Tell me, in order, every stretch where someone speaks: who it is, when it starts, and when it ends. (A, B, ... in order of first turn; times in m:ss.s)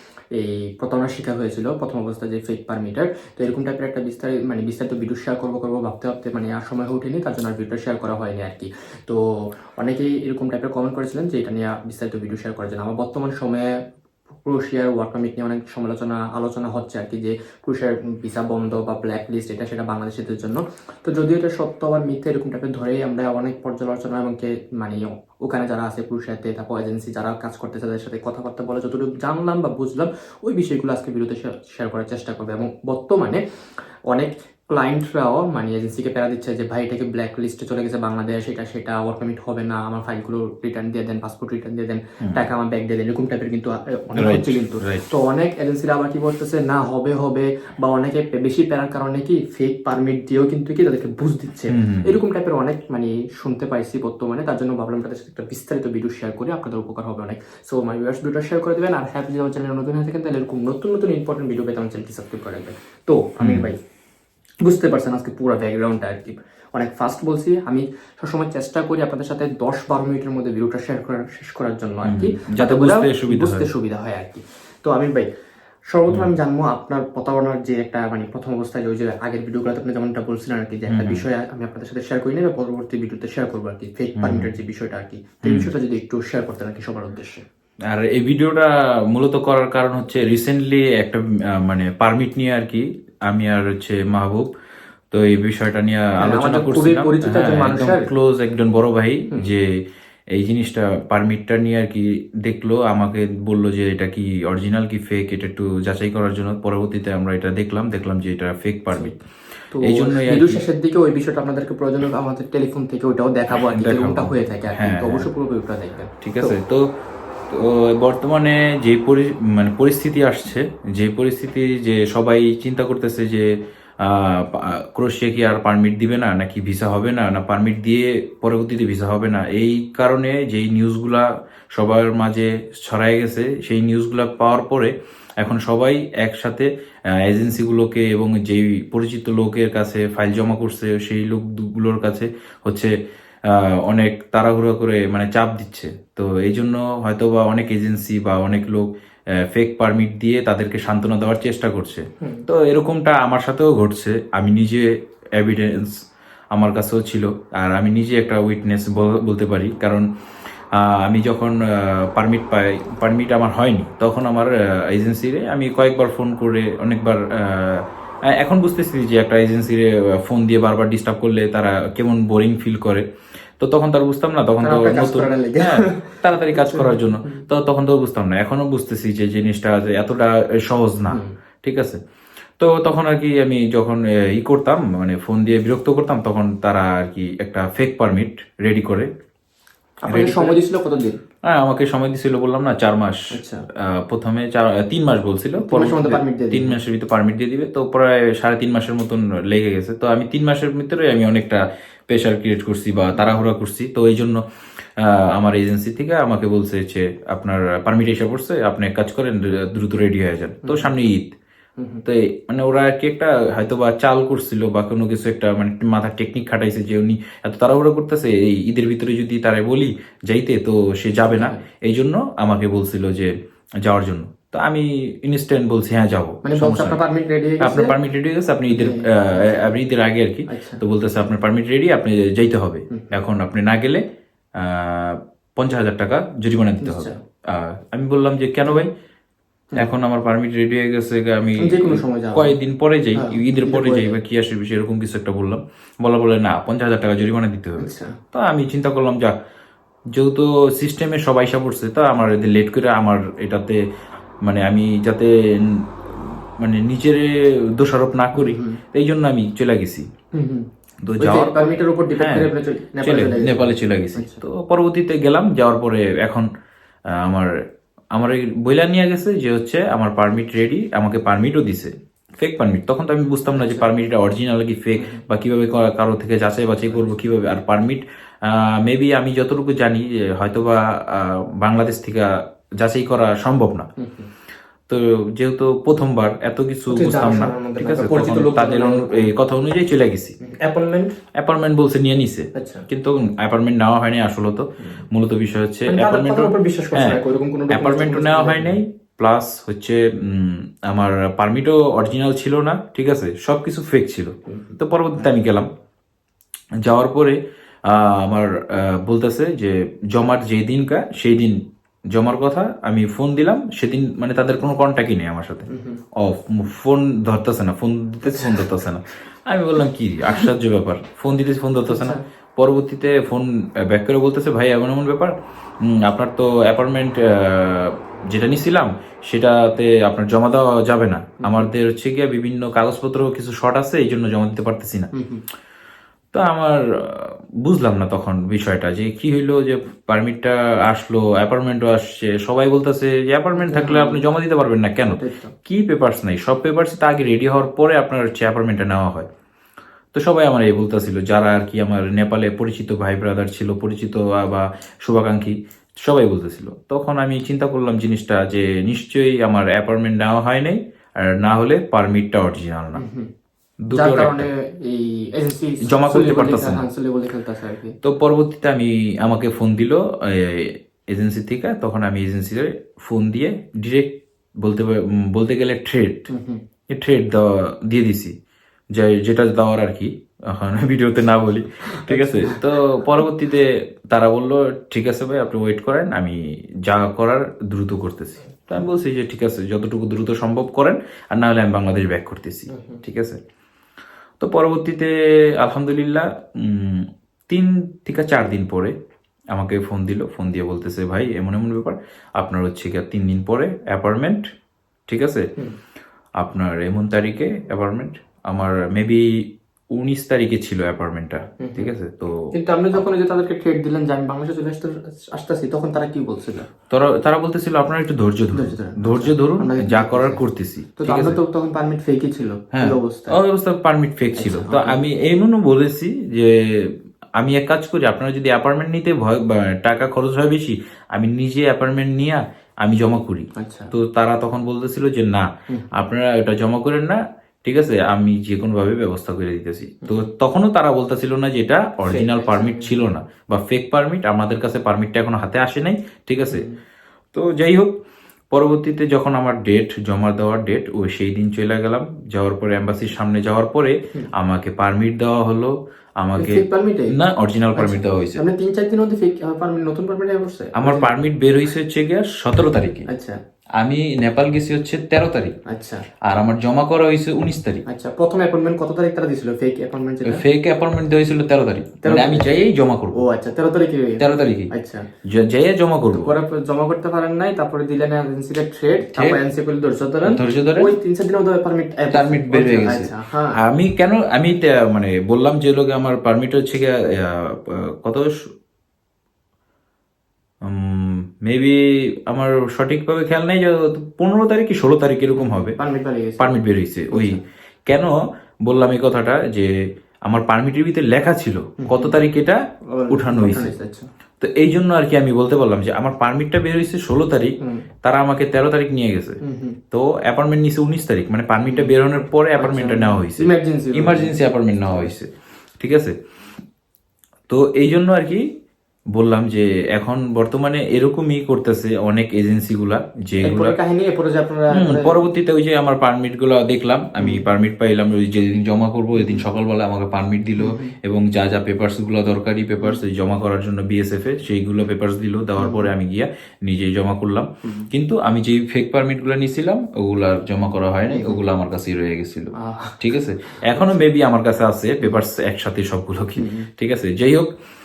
0:00.3-0:09.2 A
0:09.8-0:13.7 A
0:14.4-0:33.4 A
0:34.1-1:03.8 A
0:44.2-0:45.0 B
0:51.7-0:52.1 B
1:03.4-1:03.7 B
1:04.6-1:15.3 A
1:12.0-1:13.7 B
1:15.9-1:27.4 A
1:16.1-1:16.3 B
1:20.9-1:21.2 B
1:24.2-1:24.5 B
1:25.4-1:25.7 B
1:27.9-1:34.5 B
1:35.1-1:39.7 B
1:36.2-1:38.1 A
1:40.3-1:49.2 B
1:49.7-1:56.6 A
1:49.8-1:50.6 B
1:53.5-1:55.3 B
1:56.2-1:56.8 B
1:57.5-2:03.5 B
2:04.0-2:16.7 B
2:17.2-2:22.9 B
2:23.5-2:28.9 B
2:29.4-2:36.0 B
2:32.2-2:32.4 A
2:36.5-2:40.1 B
2:40.7-2:53.0 B
2:53.6-3:02.0 B
2:54.6-2:57.4 A
3:02.6-3:09.1 B
3:10.0-3:11.2 A
3:10.1-3:10.5 B
3:11.4-3:13.2 B
3:13.3-3:13.6 A
3:13.8-3:24.4 B
3:15.6-3:16.8 A
3:25.0-3:31.4 B
3:30.6-3:30.9 A
3:31.8-3:32.0 A
3:32.0-3:47.0 B
3:41.3-3:41.6 A
3:46.4-3:47.9 A
3:47.6-3:54.0 B
3:48.7-3:49.8 A
3:50.5-3:50.8 A
3:52.9-3:53.2 A
3:54.6-3:58.9 B
3:56.8-3:57.2 A
3:59.8-4:09.4 B
4:01.6-4:02.6 A
4:03.1-4:04.2 A
4:07.8-4:08.2 A
4:10.2-4:13.8 B
4:14.4-4:20.0 B
4:18.3-4:18.8 A
4:20.3-4:20.7 A
4:21.0-4:22.5 B
4:21.2-4:24.4 A
4:23.0-4:26.5 B
4:27.1-4:27.5 B
4:28.1-4:43.9 B
4:33.5-4:33.9 A
4:35.0-4:35.2 A
4:44.0-4:44.3 A
4:44.9-4:50.4 B
4:46.9-4:49.3 A
4:50.4-4:51.2 A
4:51.4-4:57.2 B
4:52.5-4:52.8 A
4:54.8-4:55.0 A
4:55.9-4:58.8 A
4:57.7-5:05.7 B
5:04.5-5:04.8 A
5:06.8-5:11.6 B
5:12.1-5:35.1 B
5:15.7-5:16.0 A
5:21.8-5:22.2 A
5:31.4-5:31.7 A
5:35.1-5:35.4 A
5:36.3-5:49.3 B
5:43.5-5:44.2 A
5:45.0-5:45.5 A
5:50.1-6:03.0 B
6:03.0-6:03.3 A
6:03.9-6:04.5 B
6:03.9-6:08.0 A
6:05.8-6:06.8 B
6:08.0-6:16.3 B
6:16.3-6:16.6 A
6:16.9-6:18.3 B
6:18.9-6:33.4 B
6:22.0-6:22.6 A
6:32.7-6:33.0 A
6:34.4-6:38.9 B
6:39.5-6:44.4 B
6:45.1-6:45.5 B
6:46.4-6:49.4 B
6:49.9-6:53.0 B
6:51.6-6:51.9 A
6:52.5-6:56.7 A
6:56.9-7:01.4 B
6:58.5-7:00.4 A
7:01.0-7:03.4 A
7:02.7-7:26.6 B
7:04.4-7:05.0 A
7:13.6-7:13.9 A
7:22.0-7:23.0 A
7:26.5-7:26.8 A
7:27.3-7:27.9 B
7:28.5-7:38.4 B
7:36.3-7:37.2 A
7:37.8-7:41.2 A
7:40.8-7:43.0 B
7:43.1-7:43.4 A
7:43.8-7:45.5 B
7:45.7-7:46.0 A
7:46.3-7:47.8 B
7:47.8-7:50.4 A
7:50.2-7:53.2 B
7:52.0-7:52.5 A
7:53.1-7:55.0 A
7:54.2-7:54.7 B
7:55.2-7:56.3 B
7:56.1-8:03.6 A
7:59.1-7:59.4 B
8:00.2-8:00.9 B
8:02.1-8:08.4 B
8:10.6-8:15.8 B
8:15.4-8:17.4 A
8:16.4-8:18.1 B
8:18.7-8:19.7 B
8:20.3-8:23.7 B
8:21.8-8:22.2 A
8:22.9-8:24.0 A
8:24.4-8:29.4 B
8:27.6-8:27.8 A
8:29.4-8:29.8 A
8:29.9-8:36.1 B
8:31.7-8:31.9 A
8:32.6-8:35.1 A
8:37.5-8:38.4 B
8:39.1-8:43.8 B
8:43.4-8:45.2 A
8:44.7-9:07.5 B
8:47.2-8:47.4 A
8:49.1-8:49.4 A
8:50.6-8:50.9 A
8:55.6-8:55.9 A
8:57.6-8:57.9 A
9:01.1-9:01.4 A
9:02.6-9:03.0 A
9:06.4-9:06.7 A